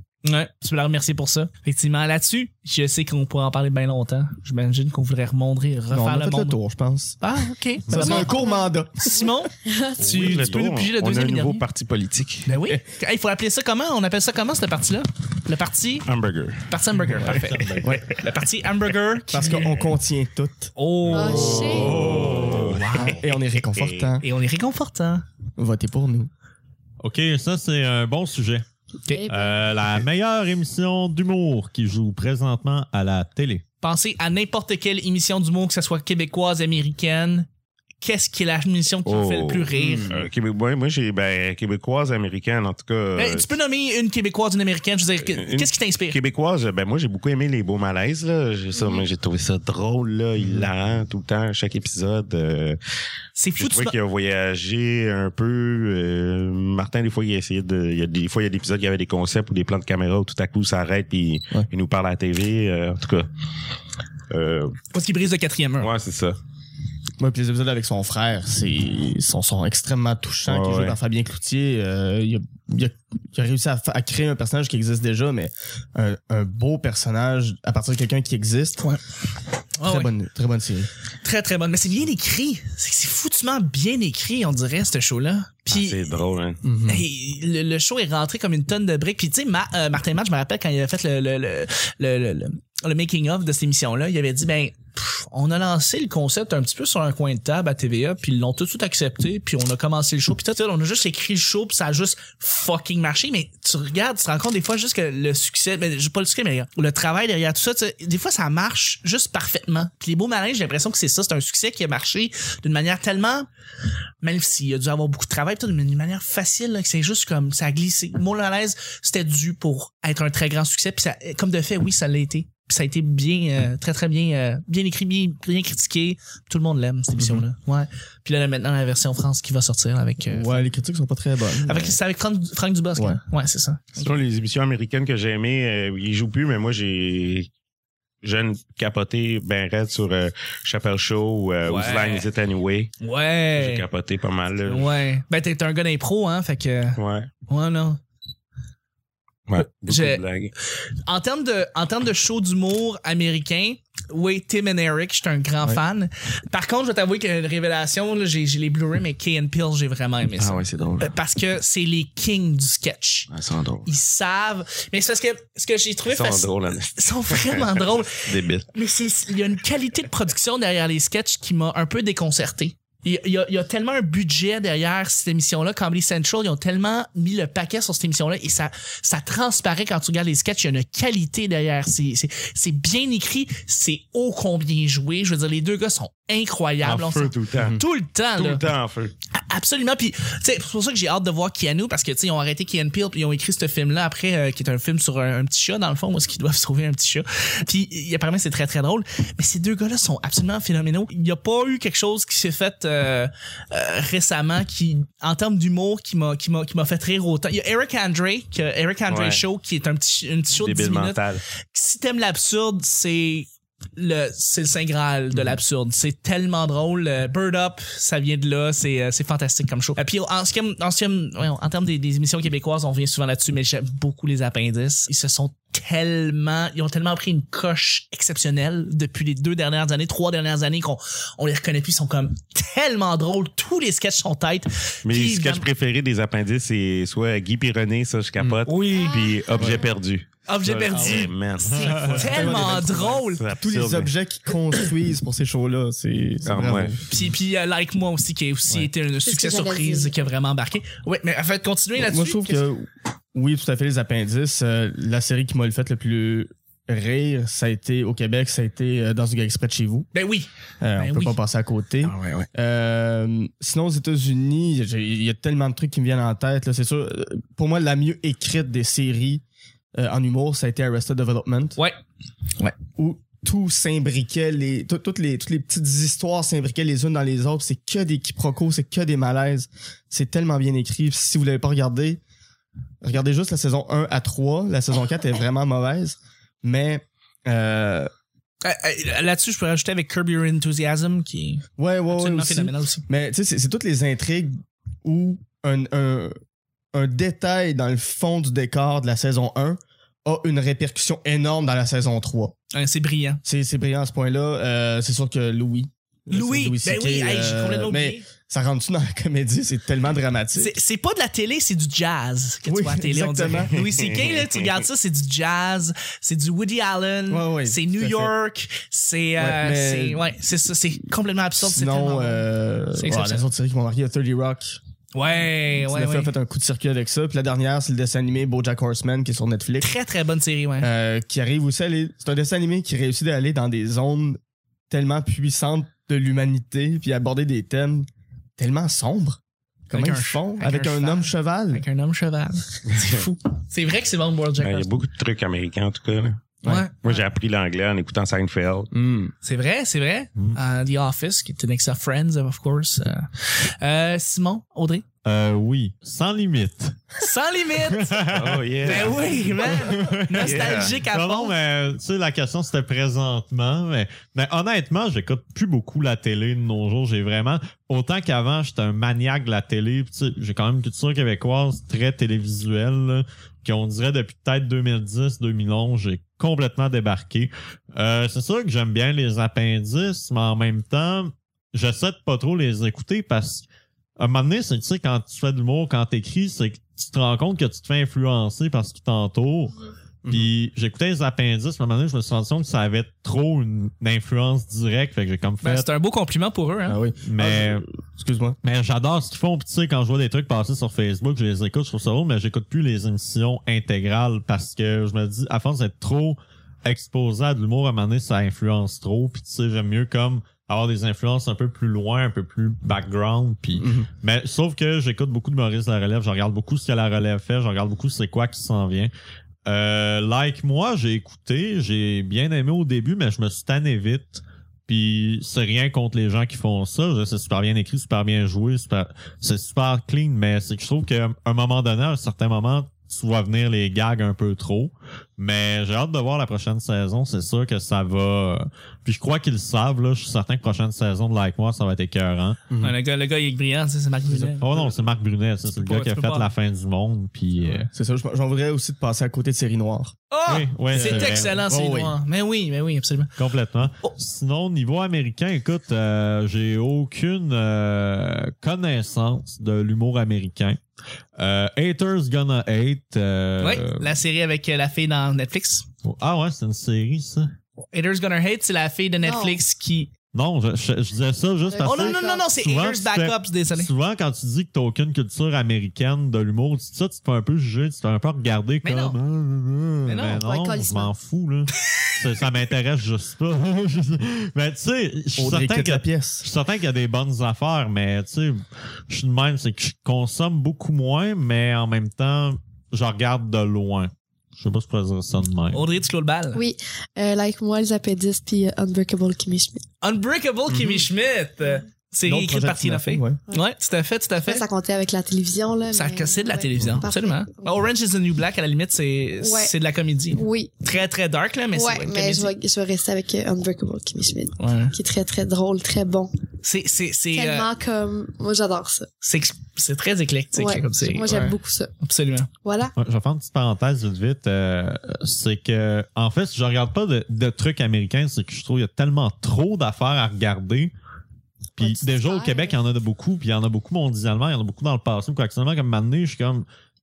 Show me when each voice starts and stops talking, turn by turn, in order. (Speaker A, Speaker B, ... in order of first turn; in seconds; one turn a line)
Speaker A: 0.2-6.6
Speaker B: 5.9-7.2
Speaker A: 7.2-8.4
Speaker B: 7.9-9.3
Speaker C: 7.9-8.7
Speaker A: 9.0-11.6
Speaker C: 9.6-10.2
Speaker D: 10.0-10.6
Speaker E: 10.1-12.5
Speaker A: 12.4-16.1
Speaker E: 16.1-16.6
Speaker A: 16.7-19.8
Speaker D: 17.0-17.9
Speaker B: 19.3-20.7
Speaker A: 20.8-23.2
Speaker C: 21.1-22.0
Speaker E: 21.2-24.1
Speaker D: 21.6-22.8
Speaker B: 22.9-24.2
Speaker A: 24.2-25.2
Speaker B: 25.6-26.3
Speaker D: 27.0-28.6
Speaker C: 29.1-29.6
Speaker D: 29.2-33.6
Speaker A: 33.8-37.5
Speaker A: 38.0-40.1
Speaker E: 39.0-43.5
Speaker A: 43.1-46.2
Speaker E: 45.2-52.8
Speaker B: 50.4-50.7
Speaker A: 53.4-53.9
Speaker E: 53.6-63.3
Speaker E: 64.3-64.8
Speaker A: 64.9-65.9
Speaker E: 65.8-66.3
Speaker B: 67.2-78.8
Speaker E: 70.4-71.0
Speaker A: 79.8-80.1
Speaker B: 79.8-80.9
Speaker A: 81.2-86.1
Speaker E: 85.7-86.6
Speaker B: 86.6-87.0
Speaker A: 86.8-113.5
Speaker A: 114.2-130.7
Speaker B: 127.2-127.4
Speaker B: 130.3-132.0
Speaker A: 131.6-134.1
Speaker E: 134.0-137.5
Speaker E: 138.2-142.9
Speaker A: 141.6-142.2
Speaker A: 143.0-143.8
Speaker E: 143.5-144.9
Speaker A: 144.7-148.0
Speaker E: 147.0-147.3
Speaker E: 149.5-150.5
Speaker A: 149.9-150.2
Speaker A: 151.1-163.3
Speaker E: 160.4-161.1
Speaker E: 163.3-163.9
Speaker A: 163.8-188.6
Speaker E: 166.1-168.7
Speaker E: 186.8-187.8
Speaker E: 188.3-189.1
Speaker A: 189.3-235.6
Speaker E: 209.1-209.4
Speaker E: 210.5-211.4
Speaker E: 235.0-244.1
Speaker A: 238.7-239.1
Speaker C: 238.9-239.8
Speaker B: 239.6-239.8
Speaker A: 240.5-243.4
Speaker B: 240.9-241.3
Speaker D: 241.7-242.2
Speaker B: 241.9-247.3
Speaker E: 246.4-246.9
Speaker A: 247.1-252.6
Speaker C: 249.2-250.1
Speaker B: 252.0-260.1
Speaker A: 260.1-261.4
Speaker B: 260.8-269.4
Speaker E: 262.0-262.5
Speaker B: 269.9-271.8
Speaker B: 272.9-282.2
Speaker B: 283.0-288.1
Speaker A: 288.6-293.1
Speaker B: 291.8-296.3
Speaker B: 296.9-302.6
Speaker A: 302.7-303.4
Speaker B: 303.4-310.7
Speaker A: 306.3-308.2
Speaker A: 310.6-323.5
Speaker B: 312.6-313.7
Speaker E: 313.7-314.6
Speaker B: 317.3-318.3
Speaker B: 319.4-320.2
Speaker B: 321.6-324.8
Speaker A: 325.1-326.3
Speaker B: 325.8-329.9
Speaker A: 329.8-330.9
Speaker B: 330.8-338.1
Speaker B: 338.6-341.8
Speaker A: 339.9-344.9
Speaker E: 342.9-343.2
Speaker E: 344.6-348.9
Speaker A: 346.6-347.2
Speaker B: 348.9-349.3
Speaker A: 349.4-355.0
Speaker D: 355.2-357.1
Speaker A: 357.2-358.2
Speaker D: 357.8-383.6
Speaker E: 358.3-359.2
Speaker A: 358.8-361.5
Speaker E: 360.4-361.0
Speaker D: 384.2-389.8
Speaker B: 390.2-390.5
Speaker D: 390.3-395.9
Speaker A: 395.6-397.0
Speaker B: 396.9-398.6
Speaker D: 397.2-397.9
Speaker D: 398.6-419.1
Speaker B: 413.8-414.1
Speaker D: 419.6-442.6
Speaker B: 442.7-442.9
Speaker A: 442.8-444.8
Speaker D: 444.6-447.9
Speaker A: 445.7-446.5
Speaker B: 447.9-450.2
Speaker A: 450.3-453.3
Speaker D: 450.4-451.5
Speaker B: 450.9-452.1
Speaker D: 453.4-460.8
Speaker D: 461.4-464.1
Speaker A: 463.6-465.9
Speaker D: 466.0-467.5
Speaker A: 467.9-470.1
Speaker C: 469.2-469.6
Speaker D: 470.3-495.8
Speaker C: 471.7-472.5
Speaker A: 471.8-473.9
Speaker A: 478.8-479.2
Speaker A: 480.1-480.4
Speaker C: 480.4-481.1
Speaker B: 485.4-486.4
Speaker A: 495.7-496.6
Speaker C: 496.5-499.8
Speaker A: 500.0-504.6
Speaker B: 500.7-501.0
Speaker B: 502.2-503.4
Speaker C: 504.4-507.7
Speaker A: 505.9-512.5
Speaker C: 509.4-509.7
Speaker C: 510.3-510.7
Speaker C: 511.7-516.3
Speaker A: 514.6-515.0
Speaker A: 516.6-517.7
Speaker C: 517.3-519.1
Speaker A: 519.2-522.5
Speaker C: 520.5-521.9
Speaker C: 522.6-522.9
Speaker D: 523.0-530.9
Speaker C: 531.8-532.7
Speaker D: 531.8-536.6